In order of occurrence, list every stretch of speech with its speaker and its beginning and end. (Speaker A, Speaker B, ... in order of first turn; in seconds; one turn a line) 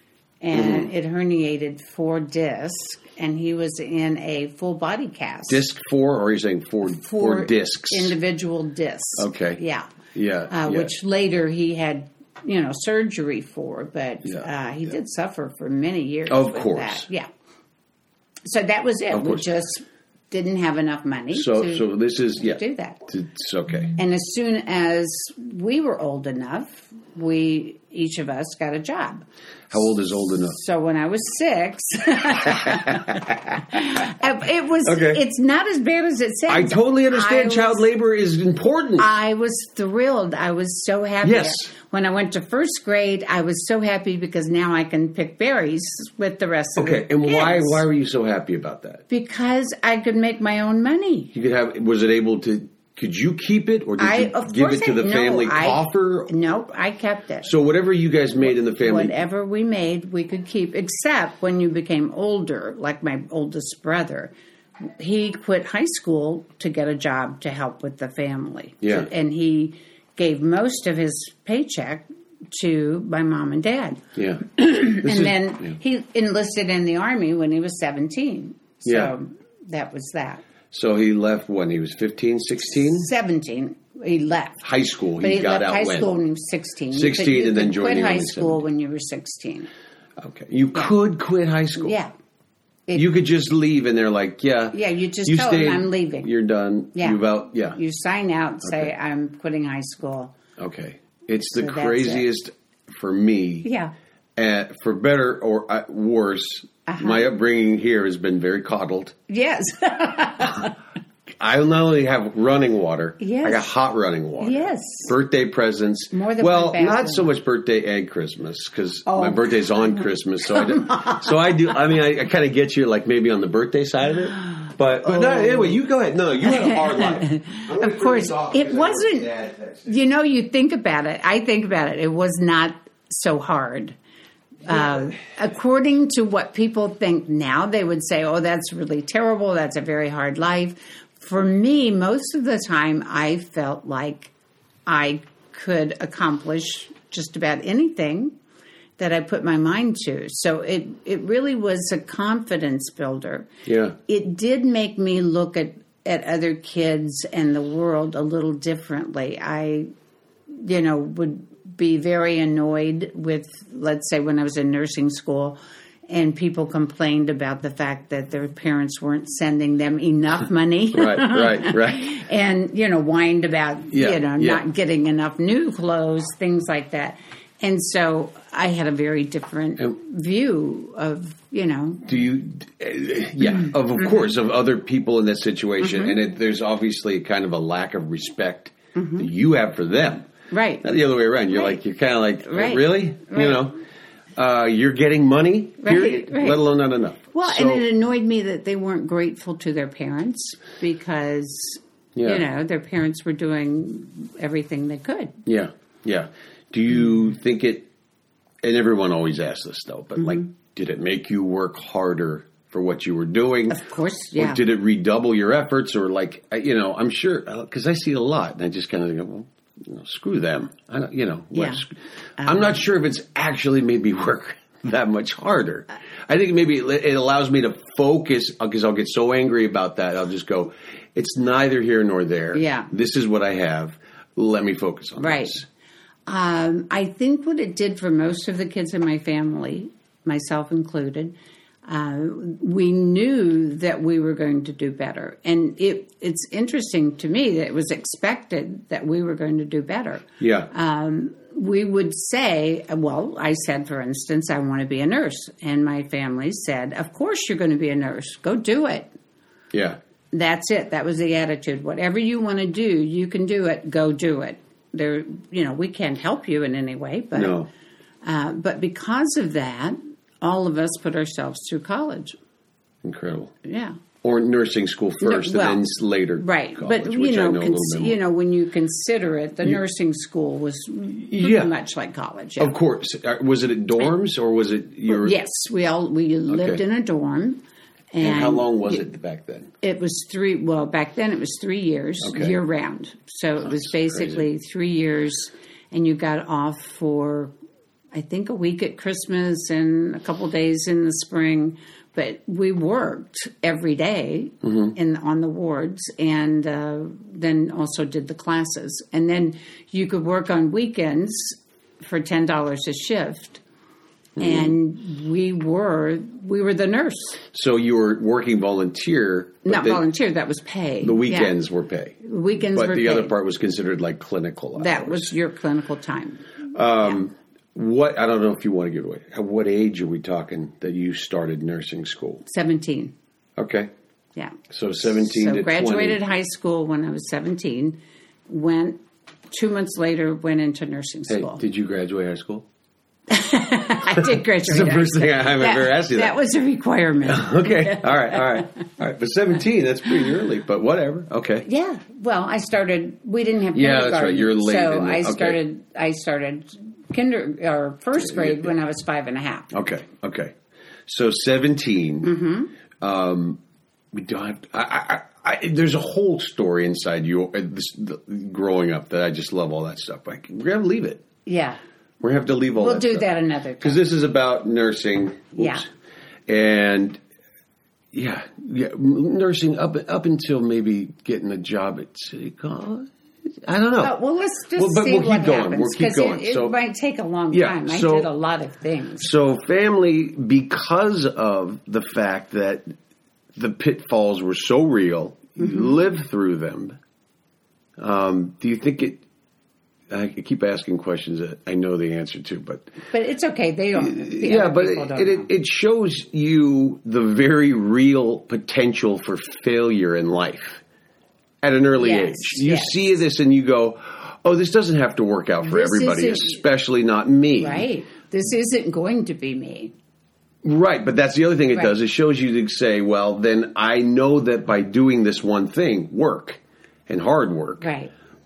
Speaker A: 0.4-5.7
Speaker B: 0.5-0.9
Speaker B: 5.5-8.2
Speaker A: 6.8-9.9
Speaker B: 9.2-9.6
Speaker B: 10.1-10.9
Speaker A: 10.5-17.3
Speaker B: 16.3-17.1
Speaker A: 18.4-23.0
Speaker B: 19.1-19.4
Speaker B: 21.3-23.9
Speaker A: 23.9-37.9
Speaker B: 29.7-30.6
Speaker B: 34.9-35.2
Speaker B: 36.5-39.1
Speaker A: 39.0-47.8
Speaker B: 41.2-41.7
Speaker B: 46.8-49.0
Speaker A: 49.1-51.3
Speaker B: 51.3-56.3
Speaker A: 54.0-57.5
Speaker B: 57.4-59.1
Speaker A: 58.4-74.0
Speaker B: 68.8-69.1
Speaker B: 74.1-75.8
Speaker A: 74.5-80.4
Speaker B: 78.8-79.1
Speaker B: 80.7-83.1
Speaker A: 82.8-84.6
Speaker B: 84.6-86.1
Speaker A: 85.2-89.7
Speaker B: 86.9-88.6
Speaker B: 90.2-92.0
Speaker A: 91.8-92.1
Speaker B: 92.9-97.8
Speaker A: 94.7-96.3
Speaker A: 96.9-100.3
Speaker B: 98.6-98.9
Speaker B: 100.6-103.7
Speaker A: 101.5-102.3
Speaker A: 103.6-103.9
Speaker B: 104.3-109.2
Speaker A: 106.9-107.3
Speaker A: 109.3-110.7
Speaker B: 111.4-129.9
Speaker A: 113.2-113.6
Speaker A: 114.4-115.1
Speaker A: 116.1-117.3
Speaker A: 119.1-121.7
Speaker A: 125.0-125.8
Speaker A: 126.4-129.3
Speaker A: 129.9-133.9
Speaker A: 134.6-144.3
Speaker A: 144.9-148.3
Speaker A: 149.0-153.5
Speaker B: 153.7-153.9
Speaker A: 154.1-159.9
Speaker A: 160.5-182.1
Speaker B: 170.9-172.2
Speaker B: 173.9-174.6
Speaker B: 182.1-190.3
Speaker A: 183.6-184.3
Speaker A: 185.8-186.2
Speaker A: 188.9-189.3
Speaker A: 190.5-190.8
Speaker B: 190.8-193.8
Speaker A: 191.5-191.8
Speaker A: 192.4-193.7
Speaker B: 194.3-197.8
Speaker A: 195.8-196.6
Speaker A: 197.3-205.3
Speaker B: 202.1-202.4
Speaker B: 205.4-207.9
Speaker B: 208.6-213.8
Speaker A: 210.2-210.4
Speaker A: 213.7-214.6
Speaker B: 214.4-235.6
Speaker A: 221.5-221.8
Speaker A: 222.4-222.8
Speaker A: 232.5-232.9
Speaker A: 235.2-235.6
Speaker A: 236.3-259.1
Speaker B: 250.4-250.7
Speaker B: 259.7-260.0
Speaker A: 260.3-267.6
Speaker B: 267.3-267.7
Speaker A: 268.2-272.4
Speaker B: 273.0-273.5
Speaker A: 273.6-274.0
Speaker B: 274.2-278.2
Speaker A: 275.2-275.8
Speaker A: 276.4-282.8
Speaker B: 281.3-281.7
Speaker B: 282.6-285.4
Speaker A: 285.1-287.6
Speaker B: 286.5-286.8
Speaker A: 288.1-289.1
Speaker B: 288.2-289.7
Speaker A: 289.8-297.5
Speaker B: 292.2-292.5
Speaker B: 293.7-294.4
Speaker A: 298.1-313.6
Speaker B: 304.6-304.9
Speaker B: 314.4-314.8
Speaker A: 314.4-317.4
Speaker B: 317.5-320.0
Speaker A: 319.6-321.5
Speaker B: 321.0-325.3
Speaker A: 322.2-323.3
Speaker A: 324.8-326.4
Speaker B: 326.7-332.4
Speaker A: 332.4-333.1
Speaker B: 333.6-333.9
Speaker B: 334.7-336.2
Speaker A: 335.1-339.0
Speaker A: 339.5-341.6
Speaker B: 341.3-342.6
Speaker A: 343.3-348.4
Speaker B: 344.2-346.4
Speaker B: 347.3-351.6
Speaker A: 351.6-359.7
Speaker B: 353.7-355.6
Speaker B: 358.2-358.7
Speaker B: 359.7-360.5
Speaker B: 361.1-362.3
Speaker A: 362.2-362.7
Speaker B: 363.0-363.6
Speaker B: 364.1-371.2
Speaker A: 371.4-371.8
Speaker B: 372.2-373.3
Speaker A: 372.8-374.0
Speaker B: 373.8-375.8
Speaker A: 375.6-375.9
Speaker B: 376.5-377.2
Speaker B: 378.1-383.1
Speaker B: 383.6-384.1
Speaker A: 384.0-389.3
Speaker B: 384.8-386.8
Speaker B: 387.5-388.3
Speaker B: 389.2-392.9
Speaker B: 393.5-397.0
Speaker A: 395.6-396.0
Speaker B: 398.0-399.2
Speaker B: 400.1-402.9
Speaker A: 403.1-405.5
Speaker B: 403.9-410.8
Speaker B: 411.6-417.9
Speaker A: 411.9-413.2
Speaker A: 415.6-416.6
Speaker A: 417.6-419.9
Speaker B: 420.6-427.9
Speaker A: 427.8-428.1